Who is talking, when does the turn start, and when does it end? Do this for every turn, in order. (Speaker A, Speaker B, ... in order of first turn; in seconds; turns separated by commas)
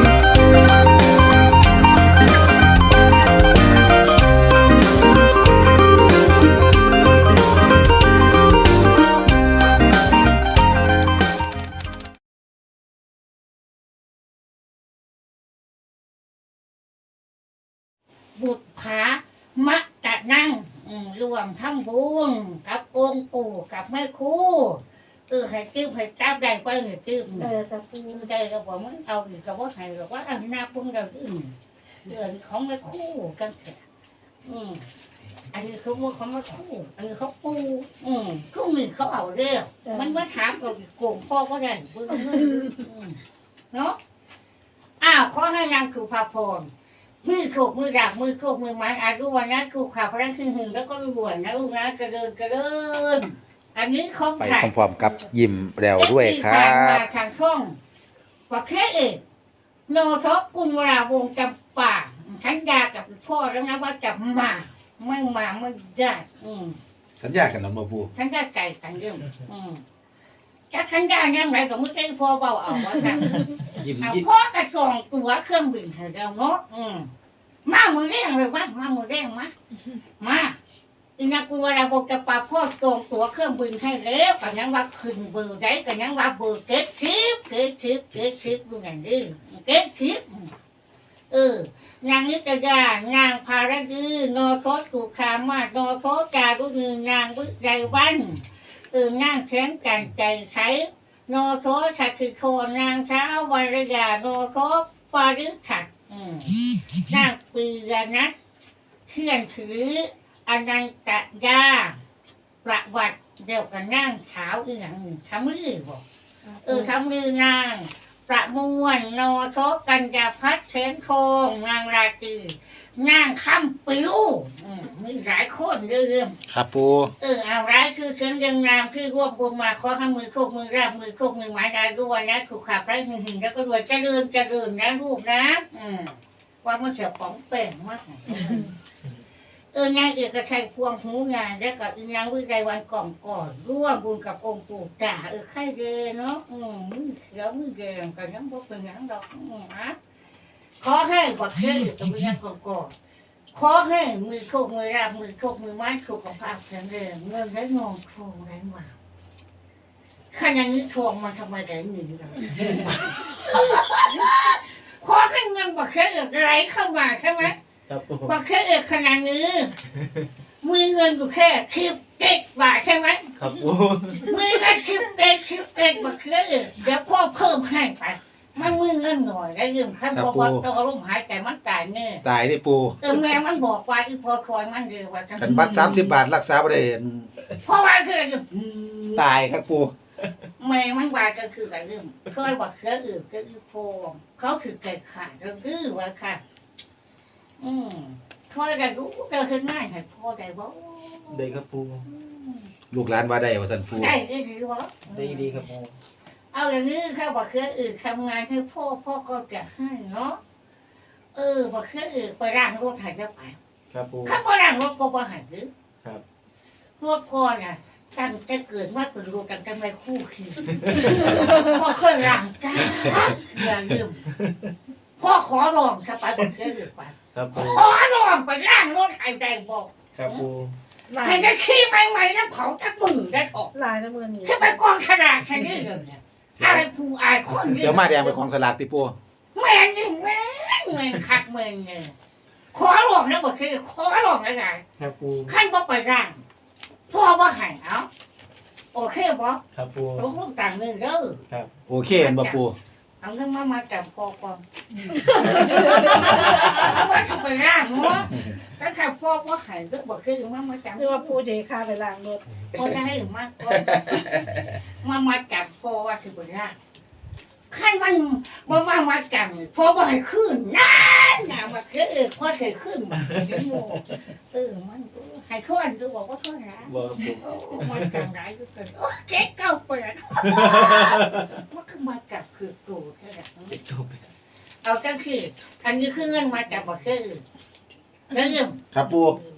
Speaker A: 18.3-27.5, Speaker B: 27.4-28.3, Speaker A: 28.1-31.5, Speaker A: 32.0-33.8, Speaker A: 34.4-34.8, Speaker A: 35.5-43.2, Speaker B: 39.8-40.2, Speaker A: 43.7-44.0, Speaker A: 45.0-46.7, Speaker A: 47.2-54.7, Speaker C: 54.4-57.0, Speaker A: 55.9-57.8, Speaker A: 58.5-59.2, Speaker A: 59.9-66.8, Speaker C: 67.2-68.1, Speaker A: 68.1-69.8, Speaker A: 70.7-77.1, Speaker C: 73.7-74.2, Speaker A: 77.6-79.5, Speaker A: 80.2-80.6, Speaker A: 81.2-90.5, Speaker A: 91.3-106.6, Speaker A: 107.1-108.3, Speaker A: 109.1-112.0, Speaker A: 112.6-116.0, Speaker B: 116.4-116.9, Speaker A: 116.6-126.4, Speaker C: 126.5-127.1, Speaker A: 127.2-138.7, Speaker A: 139.7-150.0, Speaker A: 150.8-152.9, Speaker A: 153.5-158.9, Speaker A: 160.3-167.6, Speaker D: 167.9-168.4, Speaker A: 168.2-169.7, Speaker D: 170.0-170.3, Speaker A: 170.6-173.3, Speaker D: 173.4-174.3, Speaker A: 174.2-182.2, Speaker C: 180.1-180.6, Speaker C: 182.2-183.0, Speaker A: 183.0-186.1, Speaker C: 185.4-187.3, Speaker A: 187.6-189.2, Speaker C: 189.1-189.9, Speaker A: 190.6-196.4, Speaker A: 197.6-202.7, Speaker D: 201.3-202.0, Speaker C: 202.9-204.1, Speaker A: 203.9-205.6, Speaker D: 205.1-205.9, Speaker A: 206.5-210.4, Speaker A: 211.3-213.6, Speaker D: 213.9-214.4, Speaker A: 214.2-215.7, Speaker A: 217.0-224.2, Speaker D: 220.7-221.3, Speaker D: 222.9-223.3, Speaker D: 224.3-224.7, Speaker A: 225.2-230.4, Speaker D: 227.3-227.8, Speaker D: 230.2-230.7, Speaker B: 231.1-231.5, Speaker A: 231.2-233.7, Speaker B: 233.7-234.8, Speaker A: 234.4-238.4, Speaker C: 236.5-236.9, Speaker C: 237.7-239.1, Speaker A: 239.5-242.1, Speaker A: 242.7-244.8, Speaker D: 245.0-245.5, Speaker A: 245.5-246.4, Speaker A: 247.1-248.1, Speaker A: 248.9-249.6, Speaker D: 249.7-250.3, Speaker A: 250.2-251.4, Speaker D: 251.5-251.7, Speaker C: 251.9-252.7, Speaker A: 252.1-252.6, Speaker A: 253.2-254.6, Speaker B: 255.2-256.7, Speaker A: 255.4-261.4, Speaker C: 258.3-258.6, Speaker B: 260.9-262.4, Speaker A: 262.7-264.3, Speaker D: 263.9-264.7, Speaker A: 265.0-266.8, Speaker A: 267.7-283.8, Speaker D: 273.2-273.6, Speaker D: 276.8-278.2, Speaker D: 280.4-281.4, Speaker D: 283.7-284.3, Speaker A: 284.8-287.4, Speaker A: 288.3-288.9, Speaker C: 288.9-289.4